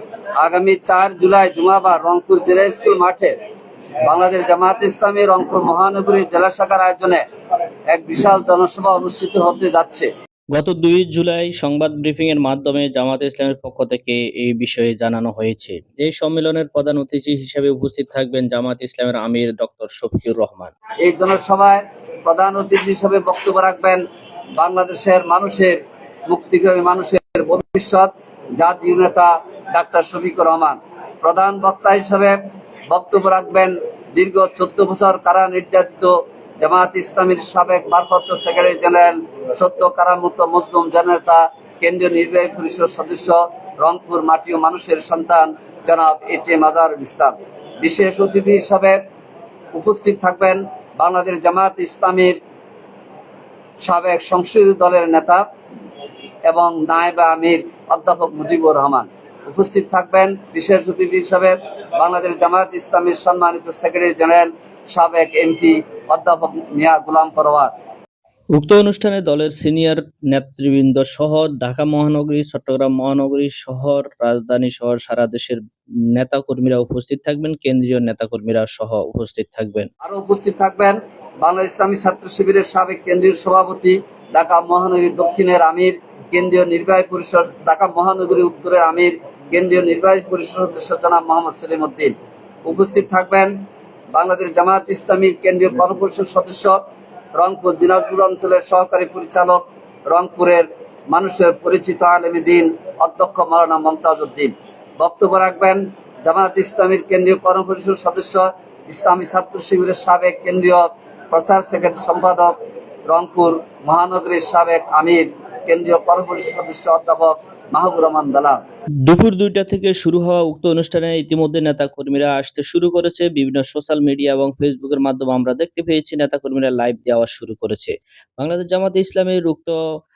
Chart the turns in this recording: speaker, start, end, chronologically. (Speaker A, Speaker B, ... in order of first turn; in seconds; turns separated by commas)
Speaker A: 0.4-3.3, Speaker A: 4.0-7.2, Speaker A: 7.9-10.1, Speaker B: 10.5-20.7, Speaker A: 21.0-24.0, Speaker A: 24.6-25.8, Speaker A: 26.3-32.4, Speaker A: 32.9-49.0, Speaker A: 49.7-52.4, Speaker A: 53.8-55.4, Speaker A: 56.5-67.7, Speaker B: 68.5-75.6, Speaker B: 76.1-79.9, Speaker A: 80.0-92.1, Speaker A: 92.6-93.5, Speaker A: 94.1-96.8, Speaker A: 97.3-112.5, Speaker A: 113.1-118.6, Speaker B: 119.0-129.8